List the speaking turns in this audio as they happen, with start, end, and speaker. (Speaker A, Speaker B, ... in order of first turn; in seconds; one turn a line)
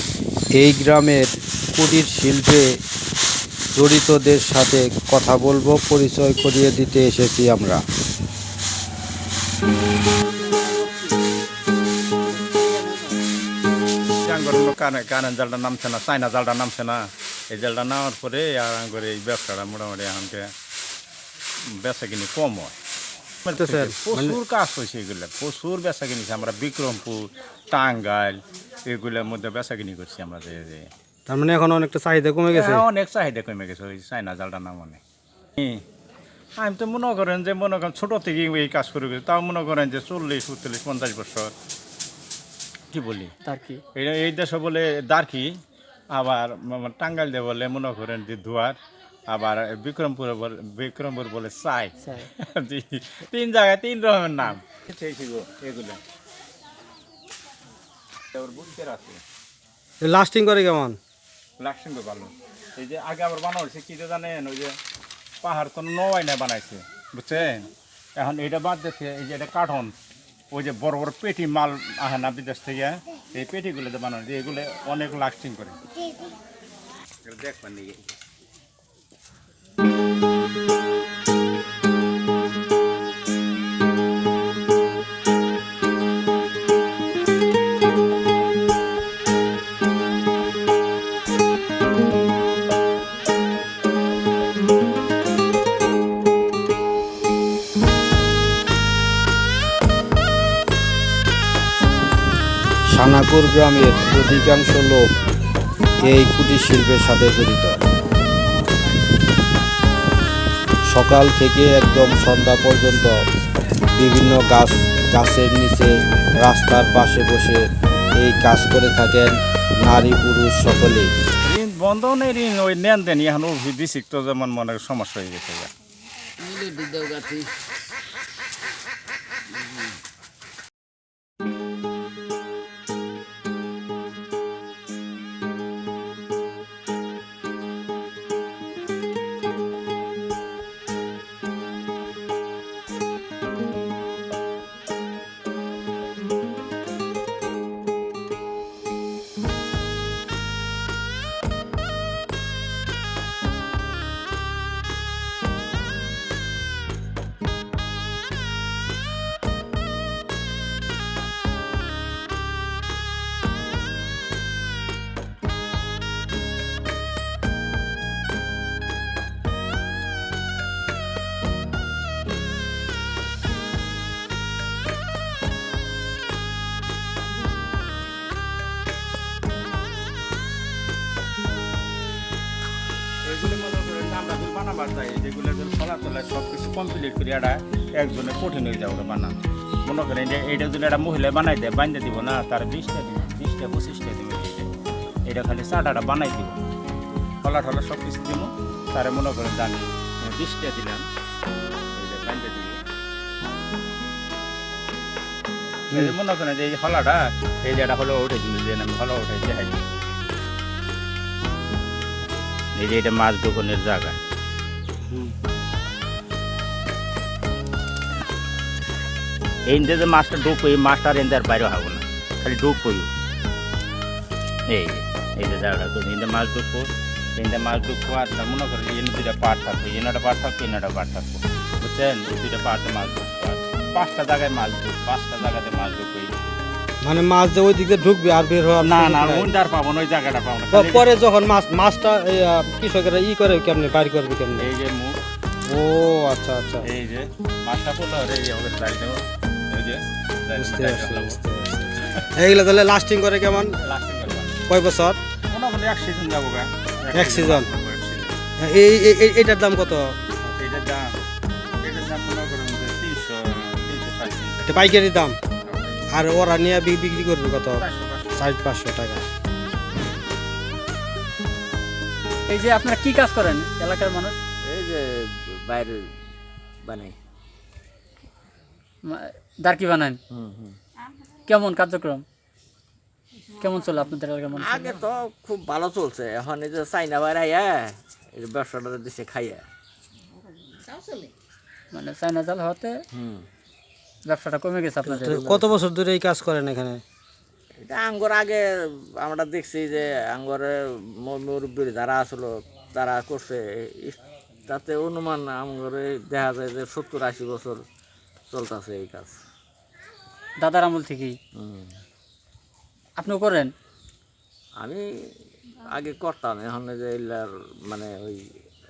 Speaker A: 0.6-2.7
Speaker A: 3.8-7.8
Speaker B: 10.5-11.1
Speaker B: 12.4-13.2
Speaker C: 14.2-20.5
Speaker C: 21.7-22.7
Speaker C: 23.4-30.9
Speaker A: 23.5-24.4
Speaker A: 31.3-32.9
Speaker C: 32.5-35.0
Speaker C: 35.6-35.8
Speaker C: 36.6-41.5
Speaker C: 42.9-43.3
Speaker B: 43.4-43.8
Speaker C: 43.9-45.6
Speaker C: 46.1-48.8
Speaker C: 49.3-56.0
Speaker B: 52.0-52.3
Speaker C: 58.3-59.2
Speaker A: 60.0-61.0
Speaker C: 61.6-64.8
Speaker C: 65.4-69.9
Speaker C: 70.5-75.8
Speaker C: 77.2-78.2
Speaker A: 102.9-105.0
Speaker A: 106.0-107.8
Speaker A: 110.9-113.2
Speaker A: 114.0-121.2
Speaker C: 121.4-125.7
Speaker D: 126.4-127.5
Speaker C: 183.2-194.7
Speaker C: 195.3-196.6
Speaker C: 197.4-201.1
Speaker C: 201.9-202.8
Speaker C: 205.9-209.8
Speaker C: 212.8-214.2
Speaker C: 219.7-223.1
Speaker C: 224.7-236.6
Speaker A: 237.0-239.5
Speaker C: 238.8-241.1
Speaker A: 240.7-244.7
Speaker C: 244.6-245.2
Speaker A: 245.7-246.9
Speaker C: 246.8-251.4
Speaker A: 250.6-253.8
Speaker C: 252.0-252.3
Speaker C: 253.8-254.6
Speaker A: 254.7-255.2
Speaker C: 255.5-258.4
Speaker A: 257.1-257.7
Speaker A: 258.6-260.4
Speaker C: 260.6-261.2
Speaker C: 261.8-264.8
Speaker A: 264.6-265.4
Speaker C: 265.6-266.1
Speaker A: 266.1-269.3
Speaker C: 267.8-268.5
Speaker B: 272.5-274.4
Speaker D: 274.6-276.1
Speaker D: 276.8-277.2
Speaker B: 279.0-280.2
Speaker D: 280.3-280.8
Speaker B: 281.5-282.2
Speaker B: 283.6-285.0
Speaker D: 284.6-289.7
Speaker D: 291.0-291.3
Speaker B: 291.9-293.0
Speaker D: 293.1-293.5
Speaker B: 294.3-295.5
Speaker A: 295.1-297.0
Speaker D: 297.8-307.9
Speaker D: 308.5-309.4
Speaker B: 310.6-311.4
Speaker D: 311.6-311.9
Speaker B: 313.2-313.7
Speaker D: 314.8-315.1
Speaker D: 315.8-318.5